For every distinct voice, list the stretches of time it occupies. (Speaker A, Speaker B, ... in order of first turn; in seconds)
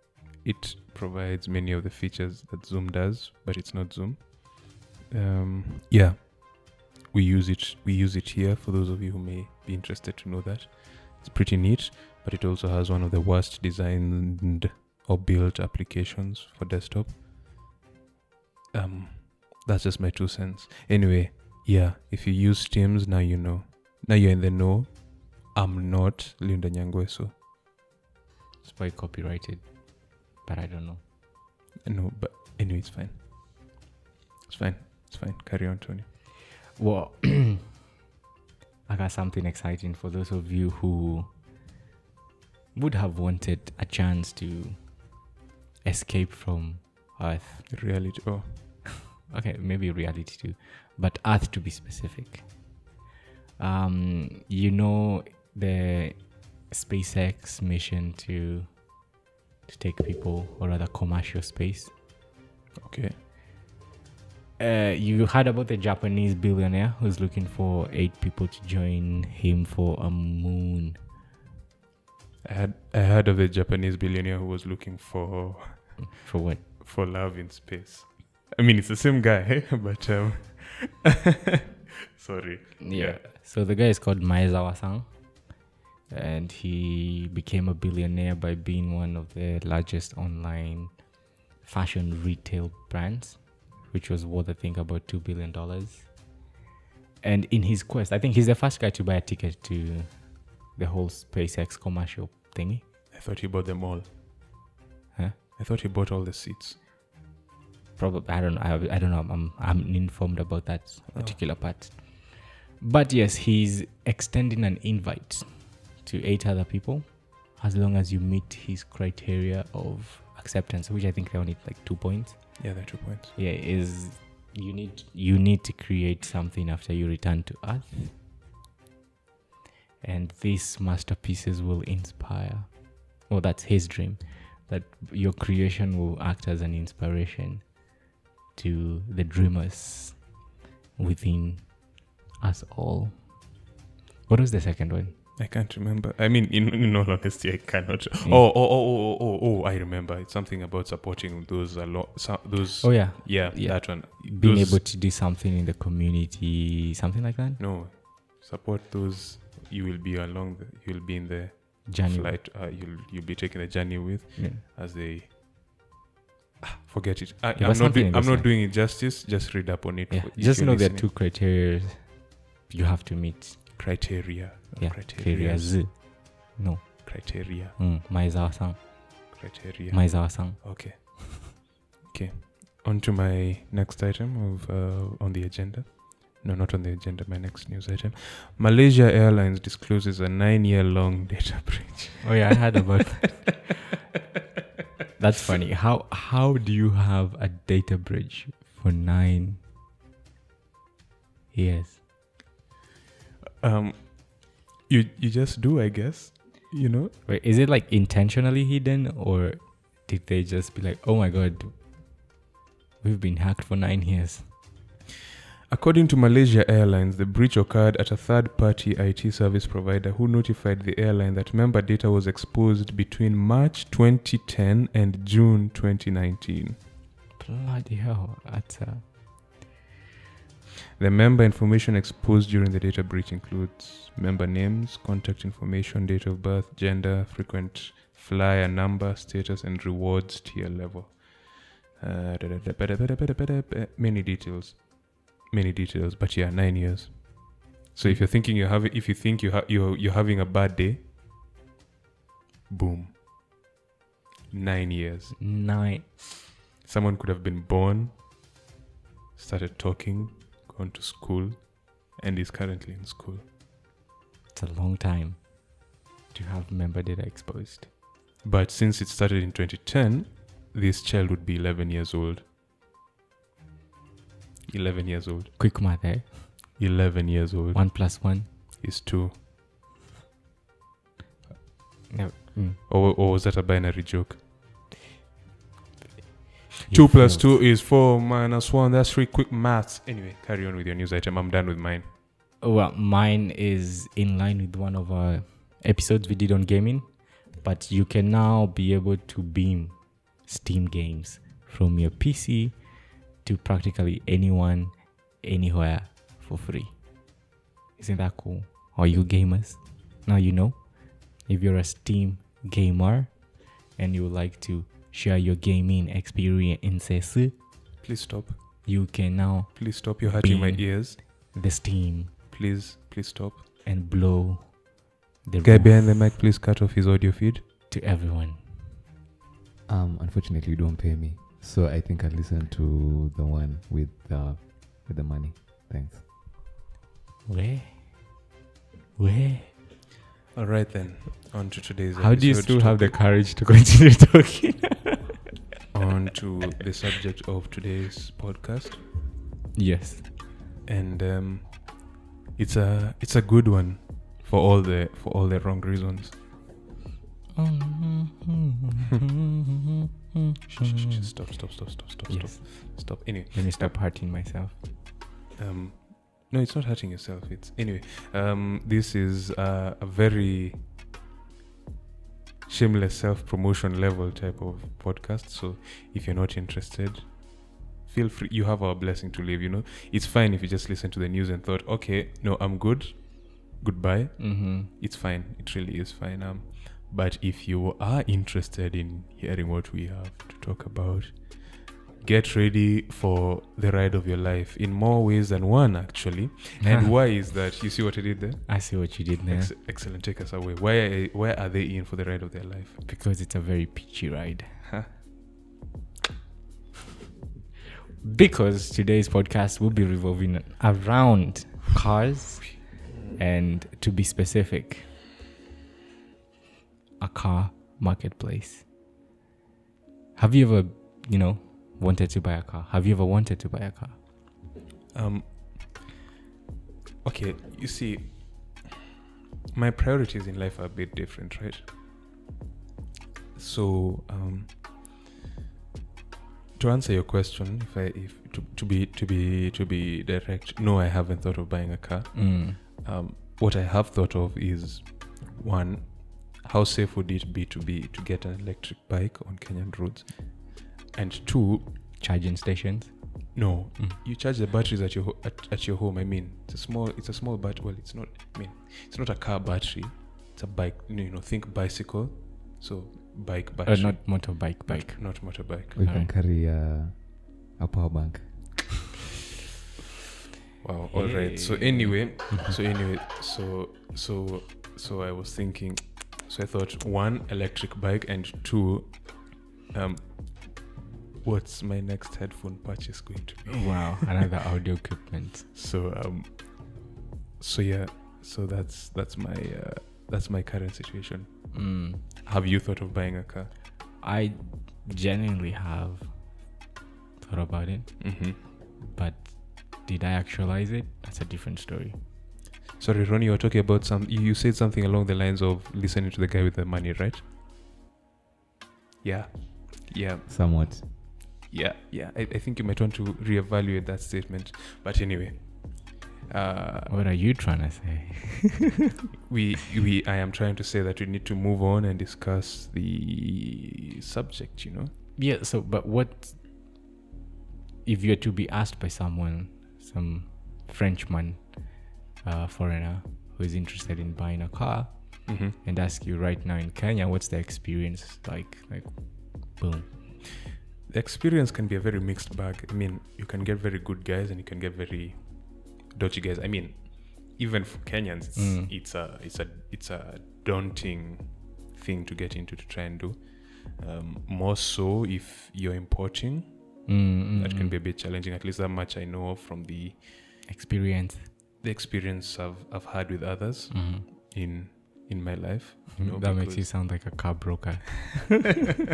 Speaker A: 0.4-17.2, 18.7-27.4, 31.8-33.8, 34.5-36.1, 47.7-48.8, 62.8-63.2, 72.4-81.2, 82.1-83.2, 103.1-104.1, 105.6-106.8, 111.1-111.6, 122.6-123.4, 145.4-154.8, 157.6-165.3, 166.6-171.1, 173.8-175.8, 177.1-177.8, 179.3-192.6, 203.6-207.2, 215.7-226.8, 231.0-251.1, 252.7-253.2, 254.5-255.5, 256.8-258.2, 259.4-263.4, 268.4-272.5, 274.7-276.2, 276.8-279.4, 282.9-284.4, 286.9-292.1, 318.0-318.9, 319.8-321.2, 322.5-323.6, 325.6-327.6, 340.5-343.2, 345.9-349.1, 350.9-356.4, 360.7-364.0, 365.6-370.9, 372.7-403.0, 404.8-405.1, 425.1-426.0, 427.2-428.9, 429.7-431.9, 433.6-434.9, 436.8-451.9, 453.6-466.1, 470.8-484.4, 485.7-493.8, 498.2-498.6, 503.0-507.4, 509.2-517.2, 519.5-525.1, 535.5-535.8, 541.1-560.4, 561.8-566.9
Speaker B: 28.6-31.0, 36.7-37.8, 38.9-41.5, 42.7-45.3, 45.8-47.8, 49.3-52.8, 53.6-61.9, 64.6-71.0, 76.2-76.7, 82.8-96.4, 97.2-102.9, 108.0-128.2, 130.0-138.0, 138.5-140.4, 141.0-143.6, 144.3-145.2, 152.8-157.6, 161.9-162.4, 164.4-164.6, 167.6-168.5, 170.1-174.2, 174.8-179.4, 179.9-180.9, 192.2-193.7, 195.2-199.6, 201.5-202.0, 207.2-212.3, 213.0-214.5, 227.4-229.2, 255.4-256.2, 264.5-267.9, 275.6-276.8, 277.7-278.5, 282.1-282.8, 286.9-287.5, 292.6-307.4, 308.0-317.6, 318.9-322.3, 323.8-326.3, 327.9-328.9, 337.5-338.5, 339.2-339.7, 342.2-345.2, 349.8-350.3, 357.6-364.8, 384.4-384.9, 398.7-399.7, 403.1-404.8, 408.2-415.2, 417.2-418.9, 420.4-424.2, 442.4-442.8, 452.2-454.2, 463.9-466.3, 471.1-472.7, 483.7-485.7, 491.7-492.2, 494.2-496.9, 497.4-502.2, 517.1-518.9, 525.4-526.8, 528.0-540.1, 548.6-548.9, 557.1-558.0, 560.7-561.5, 563.9-564.2, 566.2-568.5
Speaker C: 329.9-336.2, 466.0-468.9, 510.5-511.0